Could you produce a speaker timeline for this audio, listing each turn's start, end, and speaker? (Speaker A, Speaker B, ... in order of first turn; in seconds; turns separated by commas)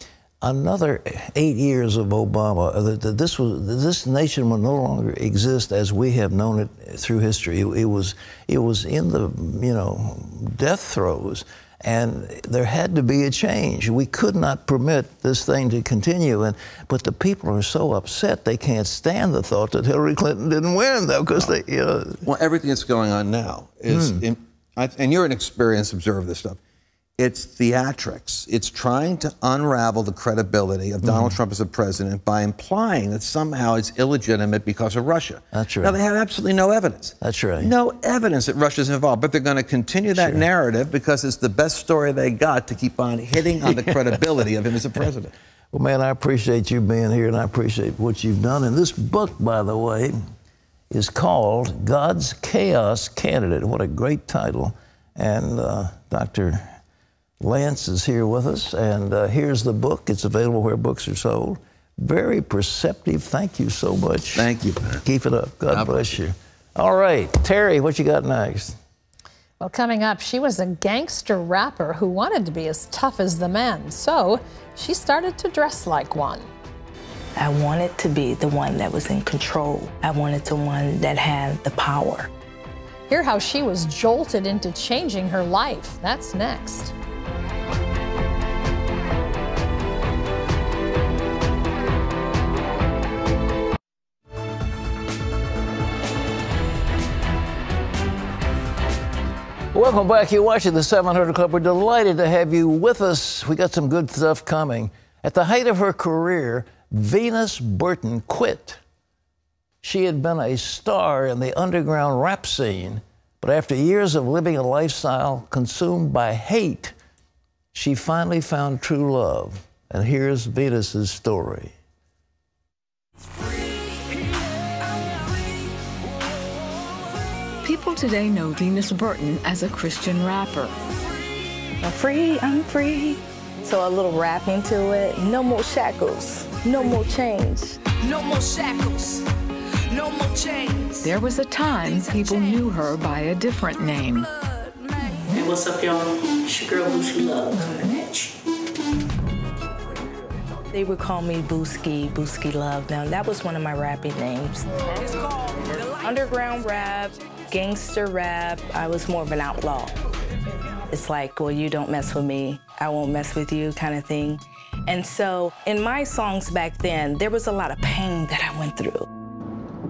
Speaker A: 0.4-22.2, Speaker B: 22.2-26.6, Speaker A: 23.9-24.2, Speaker B: 27.2-45.3, Speaker A: 31.0-31.4, Speaker A: 35.5-36.0, Speaker A: 37.2-37.7, Speaker A: 40.1-40.5, Speaker A: 43.6-44.2, Speaker A: 45.7-50.2, Speaker A: 50.9-56.8, Speaker A: 57.4-64.5, Speaker B: 64.4-65.0, Speaker A: 65.0-68.8, Speaker C: 69.6-76.5, Speaker D: 77.4-82.3, Speaker C: 83.1-86.9, Speaker A: 99.7-108.8, Speaker A: 109.8-116.9, Speaker A: 117.7-121.8, Speaker E: 127.6-130.8, Speaker D: 131.8-139.0, Speaker D: 139.9-140.9, Speaker E: 141.0-144.3, Speaker F: 145.3-147.3, Speaker D: 147.3-148.3, Speaker D: 150.7-155.2, Speaker D: 155.7-160.0, Speaker D: 160.9-169.1